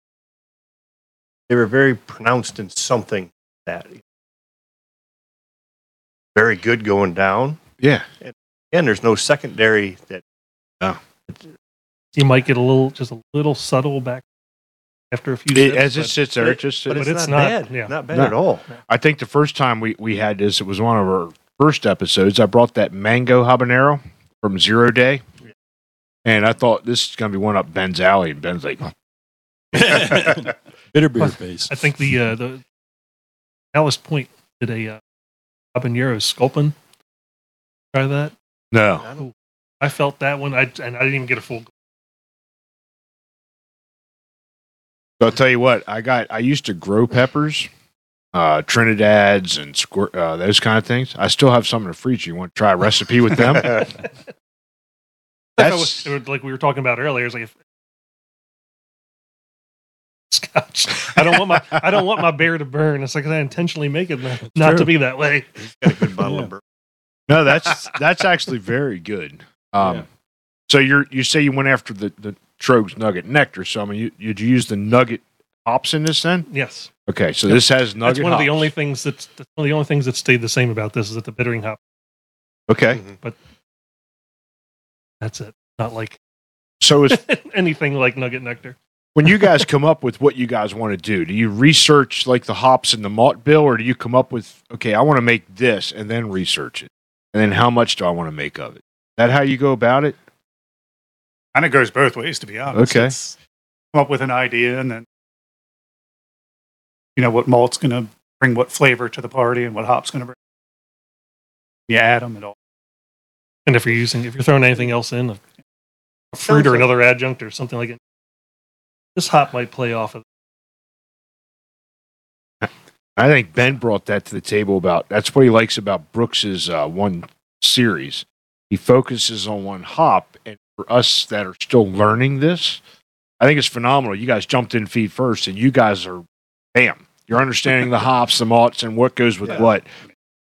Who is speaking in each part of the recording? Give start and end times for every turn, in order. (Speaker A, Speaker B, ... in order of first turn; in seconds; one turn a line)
Speaker A: 1.5-4.0
Speaker A: 6.3-7.6
Speaker B: 7.8-8.1
Speaker A: 8.2-10.2
Speaker C: 12.2-14.2
Speaker C: 15.1-16.1
Speaker B: 15.5-17.1
Speaker A: 16.4-18.7
Speaker C: 16.9-17.9
Speaker B: 18.1-25.2
Speaker B: 26.2-28.9
Speaker D: 29.7-31.7
Speaker C: 31.7-32.6
Speaker C: 33.7-35.0
Speaker C: 35.7-36.8
Speaker C: 37.9-38.3
Speaker B: 38.7-39.1
Speaker C: 39.2-41.7
Speaker B: 45.2-47.7
Speaker B: 48.3-53.9
Speaker C: 55.6-57.5
Speaker B: 55.6-56.1
Speaker C: 60.3-65.5
Speaker D: 64.6-64.9
Speaker A: 65.6-66.6
Speaker D: 66.2-66.5
Speaker B: 67.3-70.1
Speaker B: 70.7-76.5
Speaker C: 76.5-76.9
Speaker B: 77.1-78.7
Speaker C: 77.5-81.8
Speaker B: 82.7-83.0
Speaker C: 85.2-86.2
Speaker B: 86.8-87.2
Speaker C: 87.1-88.8
Speaker B: 89.2-100.2
Speaker E: 101.5-103.4
Speaker B: 102.7-103.2
Speaker E: 103.9-105.1
Speaker E: 107.2-110.4
Speaker E: 111.9-112.5
Speaker C: 113.7-115.4
Speaker C: 116.3-118.0
Speaker A: 116.5-116.9
Speaker C: 119.2-120.2
Speaker B: 122.6-132.8
Speaker B: 133.4-139.9